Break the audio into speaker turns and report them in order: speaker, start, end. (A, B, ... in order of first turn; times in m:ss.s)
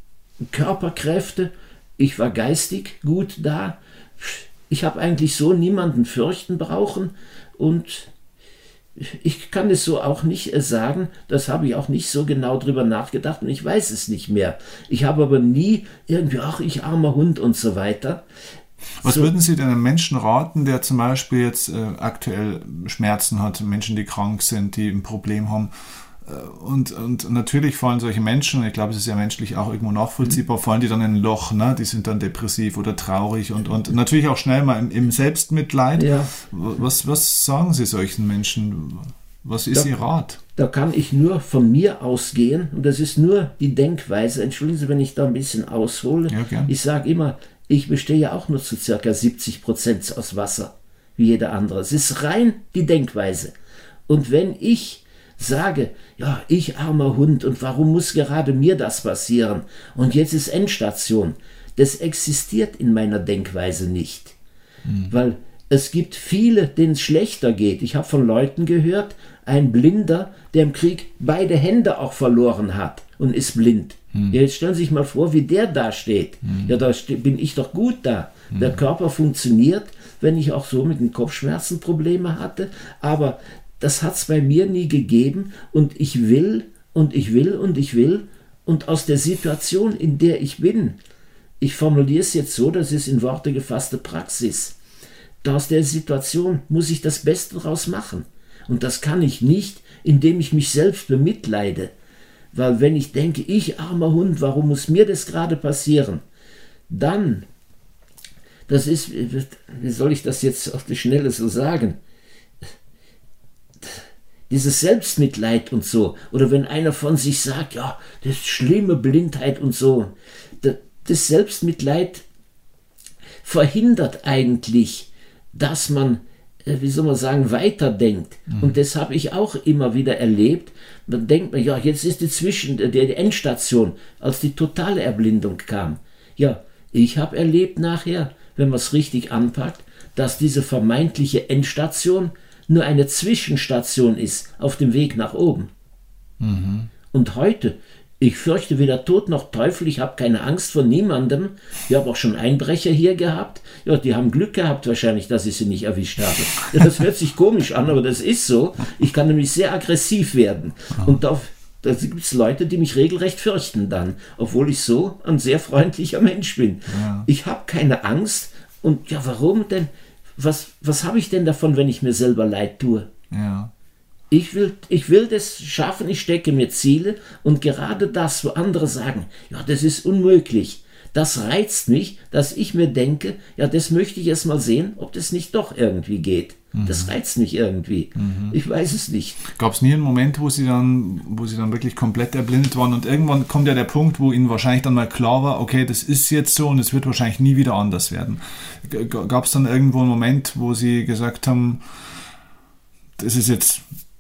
0:00.5-0:08.1 A
0:09.0-0:18.2 A
0:19.0-0:40.4 B
0:19.0-0:19.3 A
0:36.0-0:36.3 A
0:40.6-0:53.5 A
0:46.3-0:46.7 B
0:54.1-1:04.4 A
1:04.8-1:05.1 B
1:05.1-1:31.0 A
1:16.5-1:16.7 B
1:18.5-1:18.8 B
1:31.6-1:34.8 A
1:35.4-1:41.9 A
1:42.5-1:46.2 A
1:46.9-1:47.5 A
1:48.7-1:52.0 A
1:53.8-2:02.2 A
2:03.4-2:25.7 A
2:08.5-2:08.8 B
2:26.4-2:26.9 B
2:27.1-2:53.1 A
2:46.9-2:47.3 B
2:53.3-2:53.7 B
2:54.3-3:09.4 A
3:06.7-3:07.1 B
3:08.2-3:08.6 B
3:09.5-3:22.2 B
3:23.2-3:23.9 B